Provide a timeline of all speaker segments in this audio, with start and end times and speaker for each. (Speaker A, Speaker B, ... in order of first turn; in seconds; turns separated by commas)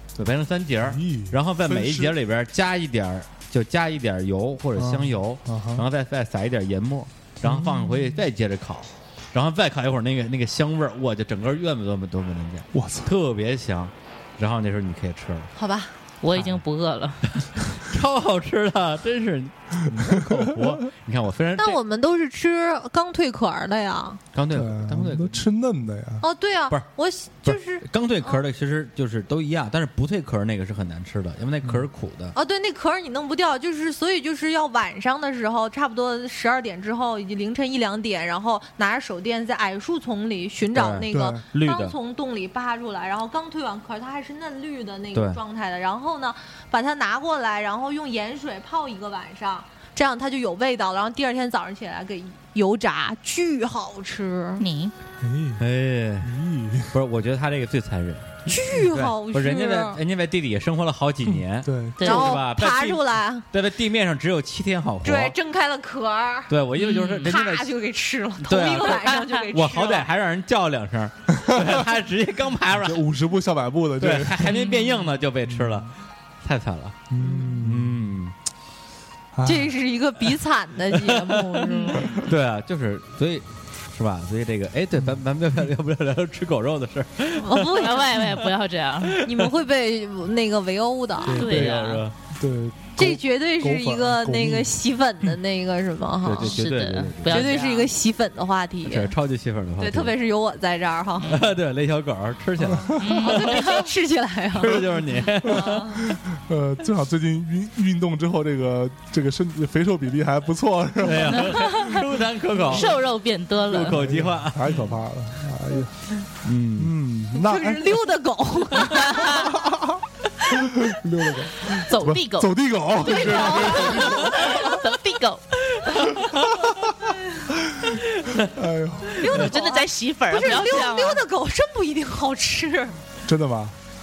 Speaker A: 0.1-15.5, Speaker B: 0.8-2.1, Speaker B: 4.8-5.8, Speaker B: 7.4-8.2, Speaker B: 12.7-13.1, Speaker C: 15.6-15.9, Speaker D: 16.2-17.4, Speaker B: 16.3-16.6, Speaker A: 17.8-21.8, Speaker B: 20.1-20.7, Speaker C: 21.6-24.2, Speaker A: 24.3-25.4, Speaker B: 24.5-26.2, Speaker C: 26.2-28.4, Speaker A: 27.4-32.3, Speaker C: 32.3-54.6, Speaker A: 40.7-41.9, Speaker B: 41.1-41.4, Speaker A: 45.1-45.4, Speaker D: 54.6-54.9, Speaker B: 55.2-55.6, Speaker A: 55.6-56.3, Speaker B: 56.2-56.9, Speaker A: 56.9-65.3, Speaker C: 58.5-60.0, Speaker B: 61.3-62.0, Speaker D: 62.0-62.3, Speaker C: 62.0-63.5, Speaker C: 65.0-66.5, Speaker A: 66.5-67.7, Speaker D: 66.7-67.3, Speaker C: 67.2-70.1, Speaker A: 68.4-73.0, Speaker D: 68.8-69.3, Speaker B: 71.4-71.7, Speaker B: 72.7-74.5, Speaker A: 74.0-78.3, Speaker D: 74.4-75.1, Speaker B: 75.5-75.9, Speaker B: 77.1-78.1, Speaker C: 77.2-77.5, Speaker B: 79.3-79.7, Speaker C: 79.4-82.1, Speaker A: 80.9-81.7, Speaker D: 81.7-82.1, Speaker A: 82.2-88.5, Speaker B: 84.9-85.2, Speaker C: 87.4-88.1, Speaker D: 87.7-89.2, Speaker C: 89.2-91.4, Speaker B: 91.3-91.8, Speaker A: 91.3-92.1, Speaker D: 91.3-92.0, Speaker B: 92.3-94.7, Speaker C: 93.0-96.5, Speaker A: 96.2-97.6, Speaker D: 96.5-97.9, Speaker C: 97.3-99.1, Speaker A: 98.8-100.1, Speaker C: 99.8-101.3, Speaker D: 101.2-101.5, Speaker A: 101.3-103.8, Speaker B: 102.6-103.0, Speaker D: 103.0-103.9, Speaker C: 103.2-104.8, Speaker A: 104.5-106.1, Speaker C: 105.4-106.0, Speaker B: 106.0-111.7, Speaker A: 111.0-113.0, Speaker D: 111.3-112.0, Speaker D: 112.7-114.0, Speaker A: 113.7-114.8, Speaker B: 113.8-116.1, Speaker A: 116.4-116.9, Speaker B: 116.8-118.0, Speaker C: 117.4-119.5, Speaker B: 118.9-120.0, Speaker B: 120.5-124.7, Speaker D: 121.7-122.5, Speaker C: 123.0-124.8, Speaker D: 123.2-126.2, Speaker B: 126.3-126.9, Speaker B: 127.7-129.2, Speaker A: 128.2-128.5, Speaker C: 129.2-133.0, Speaker D: 129.3-131.2, Speaker B: 133.2-133.8